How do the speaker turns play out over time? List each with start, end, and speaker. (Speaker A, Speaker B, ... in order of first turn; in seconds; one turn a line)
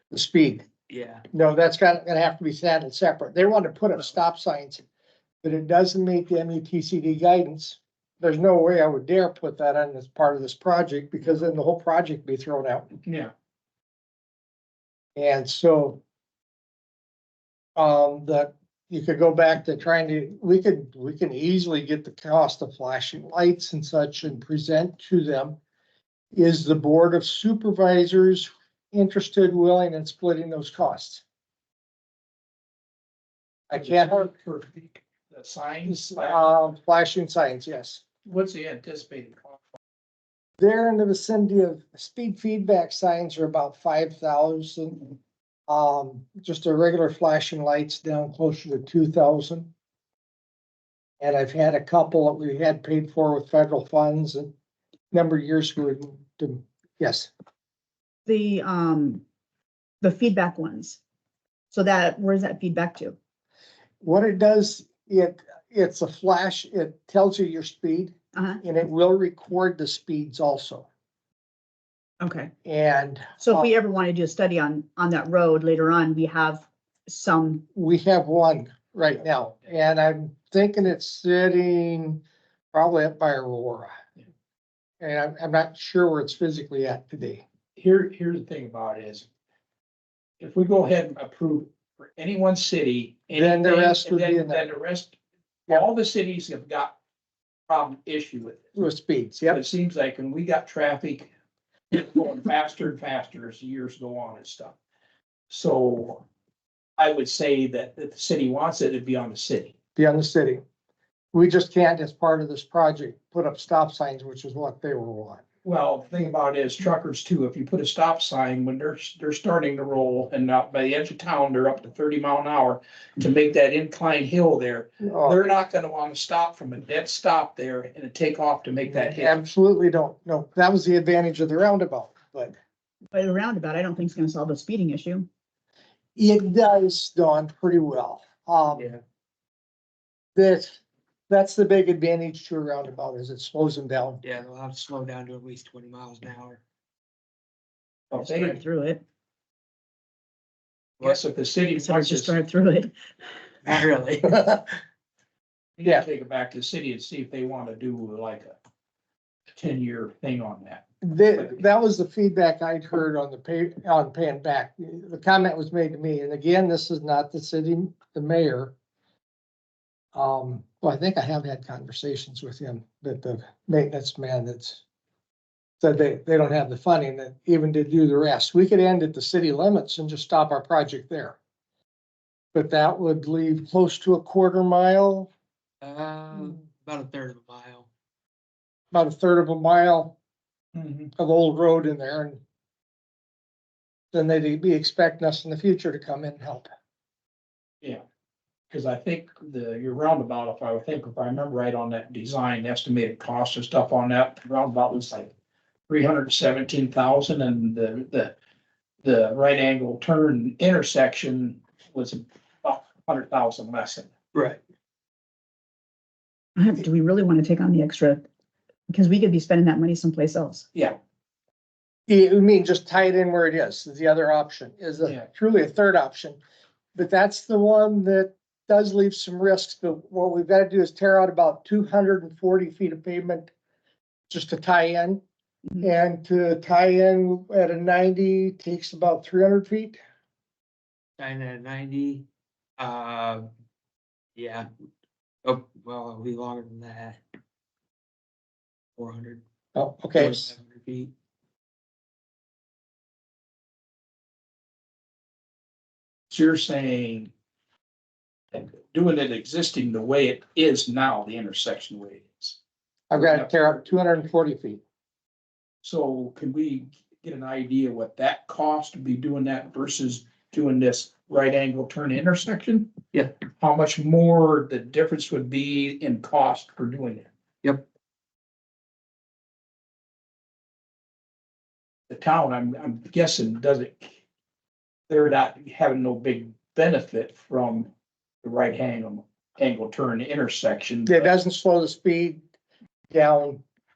Speaker A: 0.1-0.7
Speaker B: 0.9-1.2
Speaker A: 1.3-4.8
Speaker A: 5.4-12.9
Speaker C: 13.0-13.3
Speaker A: 15.2-16.0
Speaker A: 17.8-25.6
Speaker A: 26.3-31.2
Speaker A: 33.7-34.3
Speaker C: 33.7-36.4
Speaker A: 35.9-38.0
Speaker C: 38.2-39.6
Speaker A: 40.6-45.1
Speaker A: 45.7-49.7
Speaker A: 51.2-54.5
Speaker A: 55.1-57.3
Speaker D: 58.2-59.2
Speaker D: 60.0-61.0
Speaker D: 61.7-63.1
Speaker A: 64.0-70.9
Speaker D: 68.3-68.6
Speaker D: 72.2-72.5
Speaker A: 72.6-73.7
Speaker D: 73.4-77.6
Speaker A: 77.7-82.2
Speaker A: 82.7-83.9
Speaker A: 85.0-87.4
Speaker C: 87.8-89.2
Speaker C: 90.4-95.1
Speaker A: 93.3-94.7
Speaker C: 95.7-96.9
Speaker C: 97.7-98.7
Speaker A: 98.7-99.6
Speaker C: 99.5-101.3
Speaker C: 101.9-104.7
Speaker C: 105.5-106.2
Speaker C: 107.0-109.7
Speaker A: 110.0-110.6
Speaker A: 111.3-115.4
Speaker C: 115.6-129.4
Speaker A: 125.0-125.4
Speaker A: 128.9-132.5
Speaker D: 133.1-135.3
Speaker A: 136.2-138.9
Speaker B: 138.7-139.0
Speaker A: 140.3-144.2
Speaker B: 144.2-146.6
Speaker C: 148.1-148.6
Speaker D: 148.2-149.0
Speaker C: 151.0-152.3
Speaker D: 151.8-152.9
Speaker B: 153.6-154.4
Speaker A: 154.3-154.6
Speaker C: 155.8-158.5
Speaker C: 159.5-160.8
Speaker A: 161.0-168.7
Speaker A: 170.1-174.8
Speaker A: 175.8-181.4
Speaker A: 182.5-185.3
Speaker B: 185.8-187.9
Speaker A: 188.9-190.2
Speaker C: 190.7-191.1
Speaker A: 191.2-192.4
Speaker A: 194.1-196.7
Speaker C: 198.7-205.3
Speaker C: 205.9-208.3
Speaker C: 209.0-214.1
Speaker B: 214.3-214.6
Speaker D: 216.6-218.2
Speaker D: 218.9-220.7
Speaker A: 222.1-226.4
Speaker A: 226.9-233.5
Speaker A: 234.3-235.2
Speaker A: 235.8-240.0
Speaker B: 241.2-242.2
Speaker B: 242.8-243.5
Speaker B: 244.3-244.7
Speaker B: 245.4-247.2
Speaker B: 248.9-249.4
Speaker A: 249.7-250.5
Speaker B: 250.1-251.1
Speaker C: 256.3-257.3
Speaker C: 258.5-262.6
Speaker A: 263.1-264.8
Speaker C: 263.1-263.8
Speaker C: 265.8-272.9
Speaker C: 273.6-277.3
Speaker C: 282.1-284.2
Speaker C: 285.1-287.9
Speaker C: 288.4-291.3
Speaker A: 291.1-292.4
Speaker A: 293.1-293.6